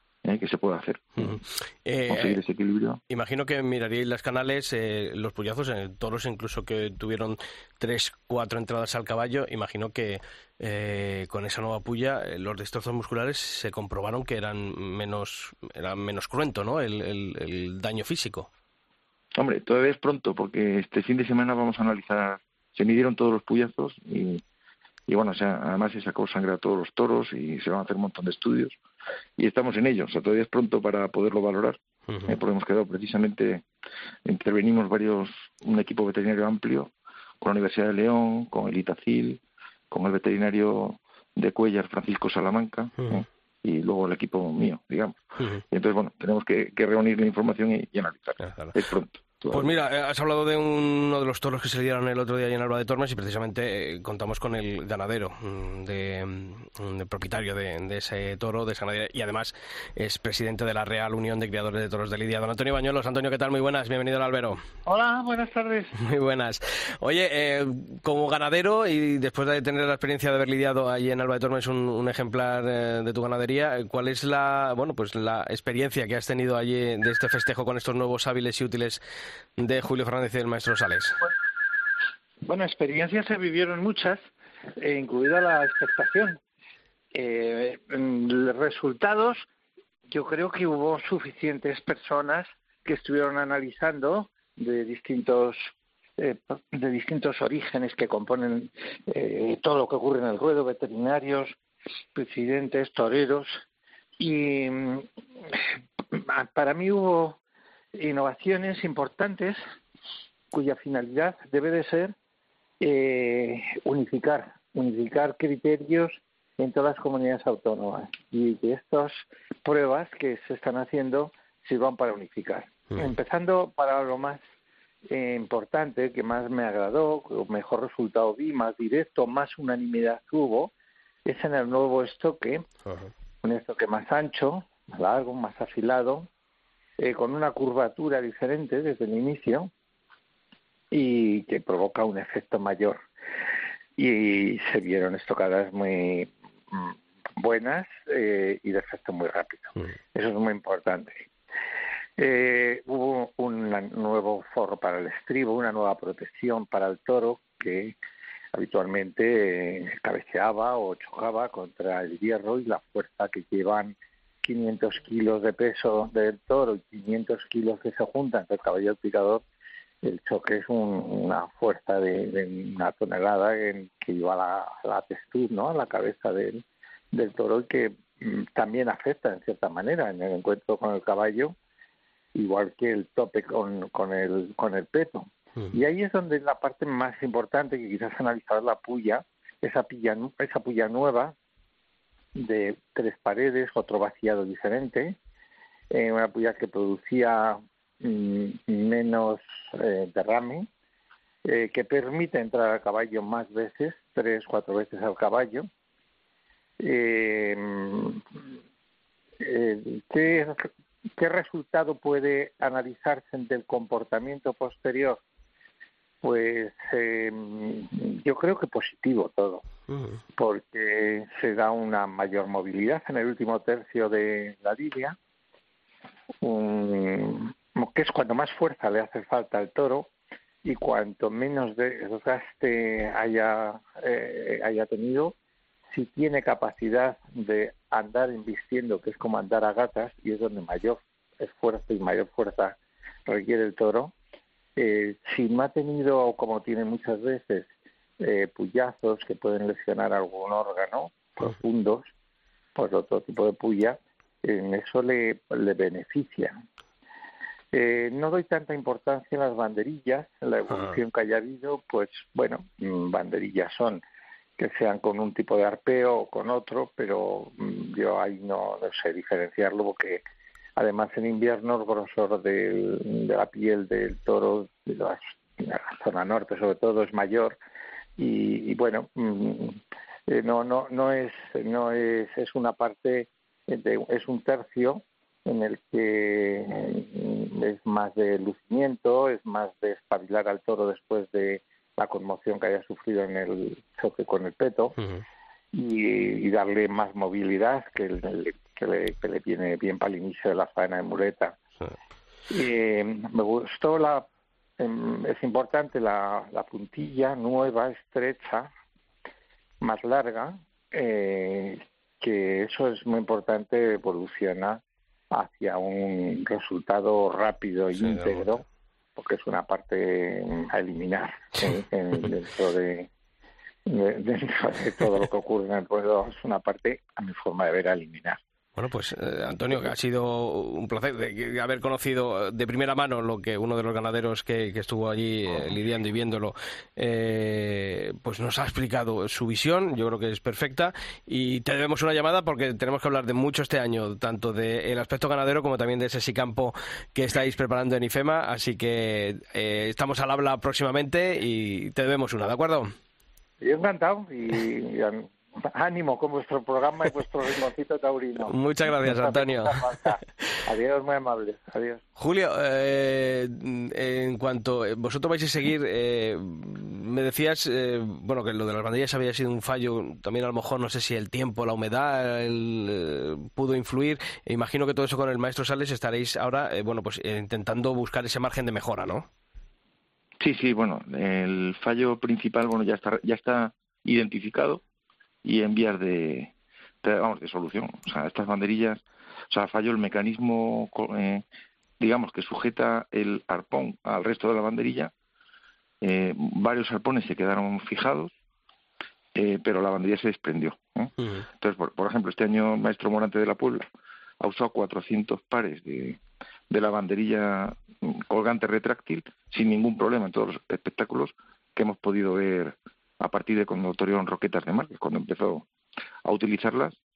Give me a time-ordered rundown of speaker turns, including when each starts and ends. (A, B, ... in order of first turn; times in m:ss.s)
0:00.2-0:01.4 A
0:01.2-0:02.4 B
0:02.1-0:03.0 A
0:03.1-0:18.5 B
0:19.4-0:24.4 A
0:25.1-0:28.8 A
0:29.4-0:33.7 A
0:32.1-0:32.4 B
0:34.3-0:39.4 A
0:39.9-0:49.7 A
0:43.0-0:43.2 B
0:45.4-0:45.6 B
0:48.4-0:48.8 B
0:49.5-1:04.6 B
1:04.9-1:05.9 C
1:06.0-1:19.0 B
1:19.6-1:21.2 B
1:22.5-1:24.2 C
1:24.8-1:26.4 C
1:27.1-1:29.5 C
1:30.1-1:41.6 C
1:42.2-1:43.6 C
1:44.2-1:45.1 C
1:46.2-1:47.4 C
1:48.0-1:49.6 C
1:50.5-1:52.2 C
1:52.8-2:04.4 C
2:05.1-2:10.7 C
2:11.3-2:12.6 C
2:13.4-2:16.3 C
2:17.0-2:19.7 C
2:20.9-2:23.0 C
2:24.0-2:31.3 C
2:32.2-2:38.0 C
2:38.5-2:49.4 C
2:50.0-3:01.6 C
3:02.4-3:11.4 C
3:12.4-3:15.2 C
3:15.9-3:20.7 C
3:21.5-3:25.7 C
3:26.8-3:28.2 C
3:29.4-3:35.2 C
3:36.2-3:39.6 C
3:39.9-3:40.2 B
3:40.4-3:45.2 C
3:46.4-3:50.1 C
3:50.6-3:55.4 C
3:55.9-4:04.2 C
4:04.8-4:12.1 C
4:12.8-4:16.6 C
4:17.7-4:24.0 C
4:20.7-4:21.0 B
4:24.6-4:30.2 C
4:30.8-4:37.6 C
4:38.2-4:55.0 C
4:55.7-5:01.6 C
5:02.5-5:04.3 C
5:04.8-5:08.7 C
5:09.8-5:14.8 C
5:15.3-5:18.6 C
5:18.0-5:18.5 B
5:19.2-5:23.1 C
5:23.9-5:28.4 C
5:28.8-5:52.9 B
5:53.6-6:02.0 C
5:58.5-5:59.8 B
6:02.2-6:19.3 B
6:20.4-6:24.8 A
6:25.4-6:31.4 A
6:32.0-6:35.1 A
6:36.0-6:38.3 A
6:39.4-6:43.9 A
6:41.2-6:41.4 B
6:44.4-6:55.7 A
6:56.3-6:57.0 A